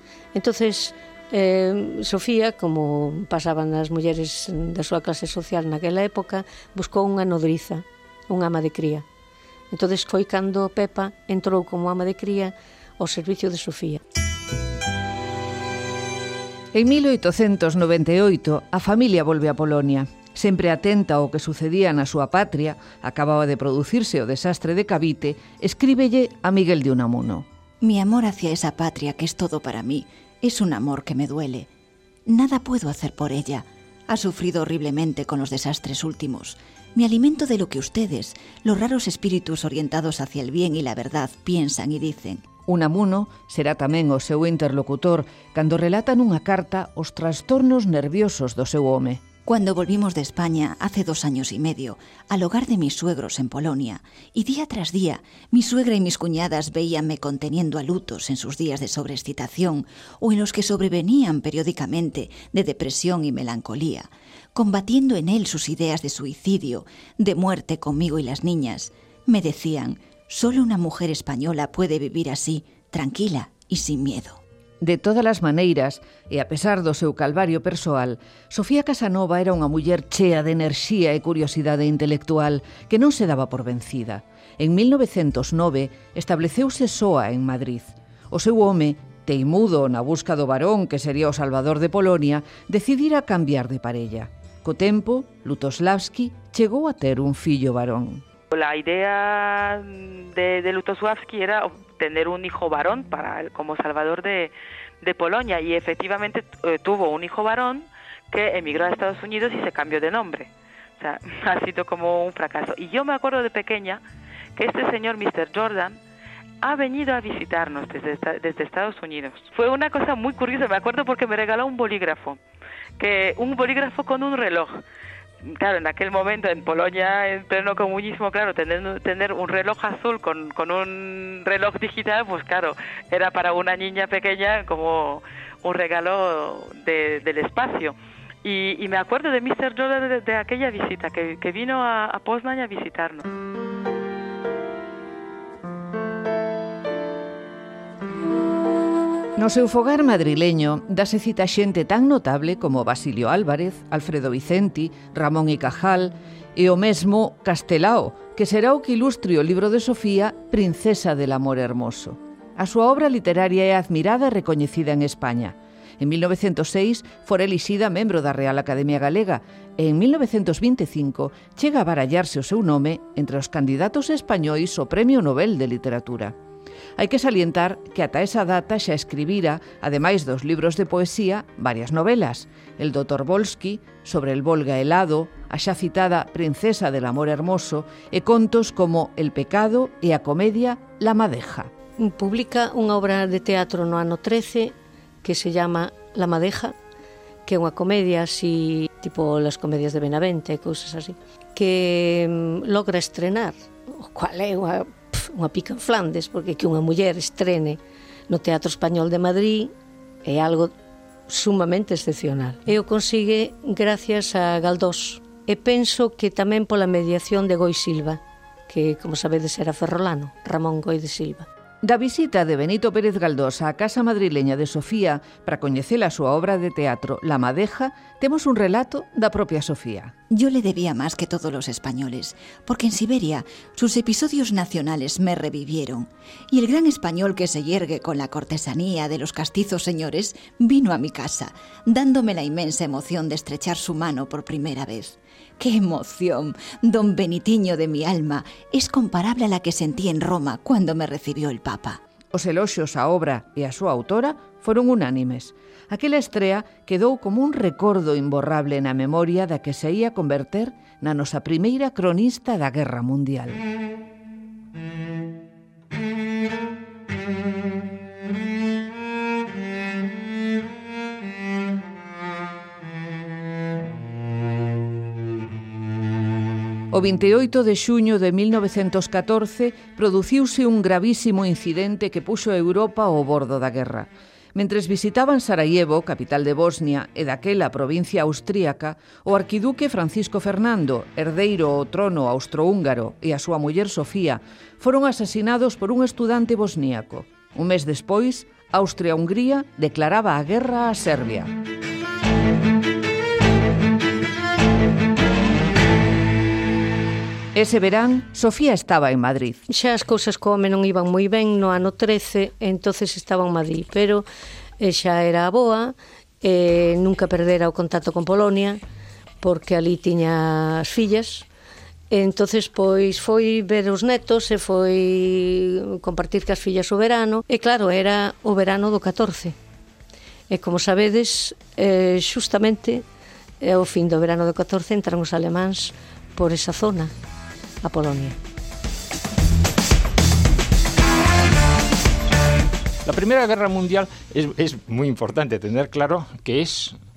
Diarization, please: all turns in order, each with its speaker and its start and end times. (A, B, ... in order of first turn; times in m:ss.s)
0:00.3-0:09.1 A
0:09.7-0:14.0 A
0:16.7-0:27.5 B
0:27.8-0:31.7 C
0:32.3-0:42.4 C
0:42.7-0:49.2 B
0:49.5-1:14.4 C
1:14.8-1:38.2 B
1:38.5-1:54.0 D
1:54.6-1:56.0 D
1:56.6-2:02.4 D
2:03.0-2:04.8 D
2:05.4-2:23.2 D
2:29.4-2:56.4 B
2:57.0-3:11.7 B
3:12.0-3:16.8 A
3:17.5-3:29.7 A
3:30.2-3:30.7 A
3:31.3-3:41.5 A
3:41.8-3:50.1 B
3:50.3-4:12.0 C
4:12.3-4:23.6 B
4:36.9-5:01.5 B
5:07.5-5:09.6 B
5:09.7-5:14.3 A
5:14.8-5:18.8 A
5:19.4-5:21.5 A
5:22.1-5:29.6 A
5:30.5-5:33.0 A
5:33.6-5:37.1 A
5:37.8-5:38.4 A
5:43.0-5:47.0 E